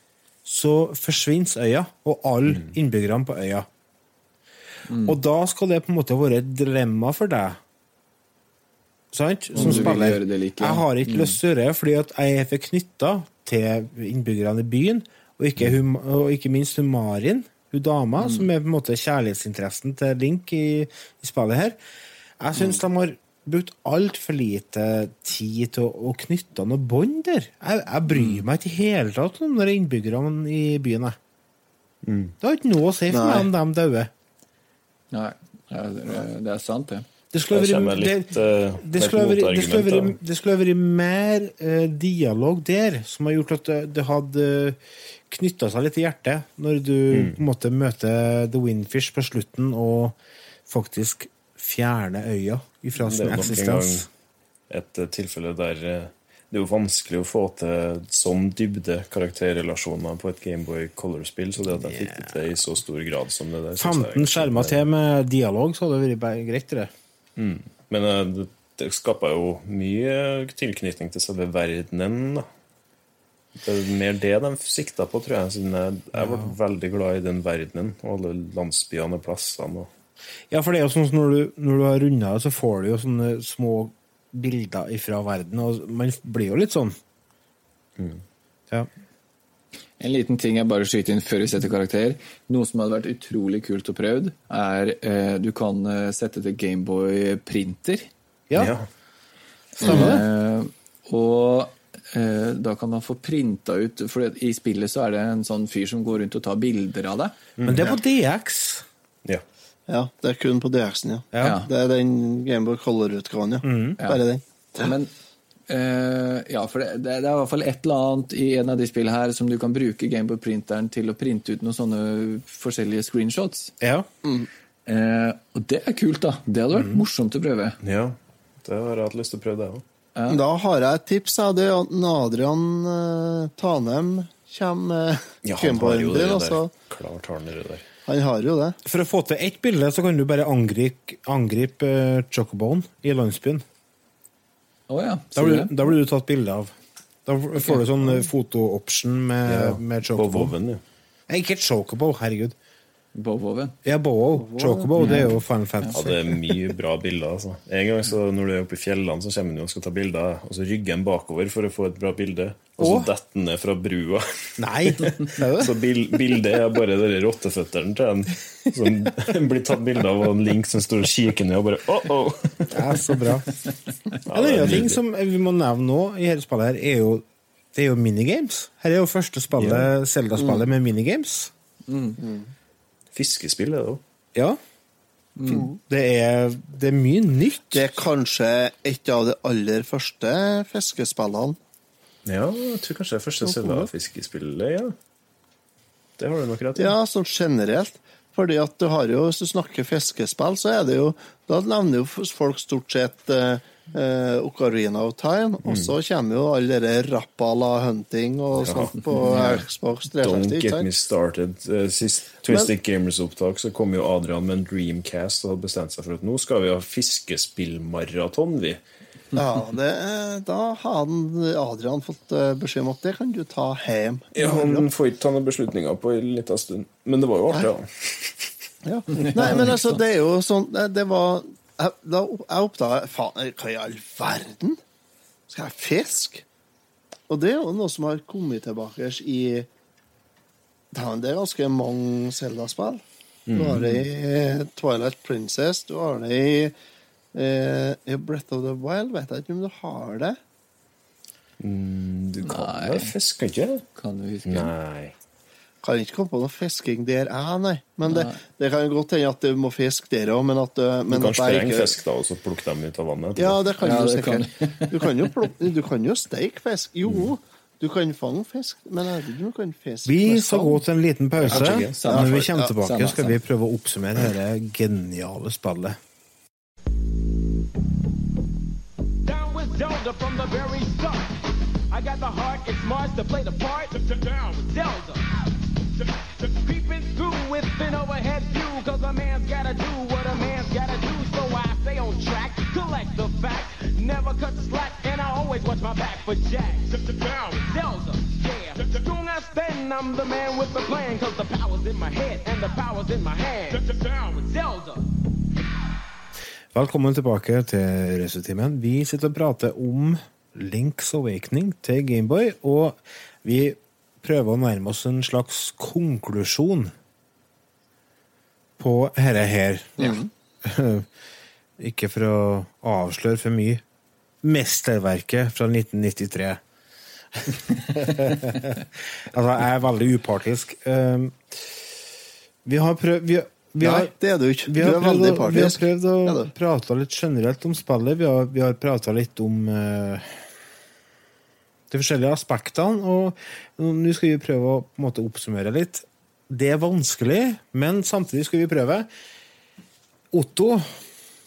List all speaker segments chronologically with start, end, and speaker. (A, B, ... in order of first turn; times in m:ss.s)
0:00.4-0:03.7 A
0:02.5-0:02.7 B
0:04.9-0:05.2 C
0:05.0-0:07.6 A
0:09.1-0:21.8 A
0:09.5-0:11.4 C
0:18.2-0:18.5 C
0:22.4-0:31.2 A
0:28.1-0:28.4 C
0:32.0-0:32.3 B
0:32.4-0:34.1 A
0:33.1-0:33.5 D
0:35.1-0:37.0 C
0:37.3-0:44.8 A
0:37.5-0:40.2 B
0:45.3-0:50.2 A
0:47.1-0:47.4 B
0:50.7-0:54.1 A
0:53.0-0:54.1 B
0:54.7-1:04.8 B
1:01.8-1:02.4 A
1:03.8-1:06.9 A
1:07.4-1:12.4 B
1:13.6-1:19.9 B
1:16.1-1:16.5 A
1:20.5-1:26.9 A
1:30.0-1:38.1 C
1:38.5-1:38.7 A
1:38.5-1:38.8 B
1:39.8-1:40.2 A
1:39.8-1:47.4 C
1:39.8-1:40.1 D
1:47.6-1:47.9 B
1:47.6-1:48.8 A
1:49.9-1:54.9 D
1:51.3-1:51.6 A
1:51.4-1:51.7 C
1:53.6-1:54.0 A
1:54.8-1:55.1 C
1:55.7-2:03.7 C
2:03.8-2:04.1 A
2:04.2-2:04.5 D
2:04.9-2:07.8 C
2:06.7-2:07.0 A
2:07.8-2:09.8 B
2:10.2-2:10.4 C
2:10.3-2:16.7 D
2:15.4-2:17.8 B
2:18.1-2:18.8 D
2:18.8-2:23.6 A
2:24.9-2:25.9 C
2:25.3-2:26.7 A
2:27.2-2:30.5 A
2:29.4-2:30.8 B
2:31.3-2:32.5 A
2:33.1-2:33.8 C
2:33.8-2:36.4 A
2:34.4-2:34.9 D
2:35.0-2:36.0 C
2:35.9-2:52.8 B
2:42.8-2:43.1 A
2:44.6-2:45.7 A
2:52.7-2:53.5 A
2:54.2-2:55.0 B
2:54.3-3:01.5 A
2:59.6-2:59.9 B
3:00.4-3:00.6 D
3:01.9-3:02.2 C
3:02.2-3:02.5 D
3:03.1-3:04.0 B
3:05.4-3:05.7 C
3:05.5-3:05.8 D
3:05.5-3:08.0 A
3:07.7-3:11.6 D
3:12.2-3:14.9 B
3:13.4-3:13.9 D
3:16.2-3:17.0 B
3:16.8-3:30.9 D
3:25.6-3:25.9 B
3:28.5-3:29.5 B
3:29.2-3:29.6 C
3:30.2-3:38.8 B
3:39.3-3:44.9 D
3:44.3-3:48.5 B
3:48.8-3:54.8 D
3:49.2-3:49.7 C
3:55.5-3:56.4 D
3:57.3-3:59.7 D
4:00.9-4:03.0 D
4:03.5-4:03.8 B
4:03.6-4:06.7 D
4:03.8-4:04.0 C
4:07.3-4:10.4 D
4:11.6-4:13.8 B
4:12.4-4:13.1 C
4:13.9-4:14.7 C
4:14.4-4:15.1 B
4:15.8-4:21.9 D
4:18.0-4:18.4 C
4:21.1-4:23.6 B
4:23.4-4:30.8 D
4:23.8-4:25.3 C
4:27.0-4:27.3 B
4:30.0-4:36.0 A
4:31.4-4:32.0 B
4:31.9-4:33.4 C
4:32.1-4:32.7 D
4:39.2-4:41.4 E
4:41.9-4:45.3 E
4:46.0-5:05.1 E
5:06.7-5:16.9 A
5:18.8-5:21.1 A
5:20.0-5:20.3 D
5:21.8-5:23.8 A
5:24.4-5:26.6 A
5:27.3-5:31.7 A
5:32.6-5:34.1 A
5:33.8-5:36.5 D
5:34.6-5:40.4 A
5:41.9-5:49.1 A
5:50.3-5:51.0 A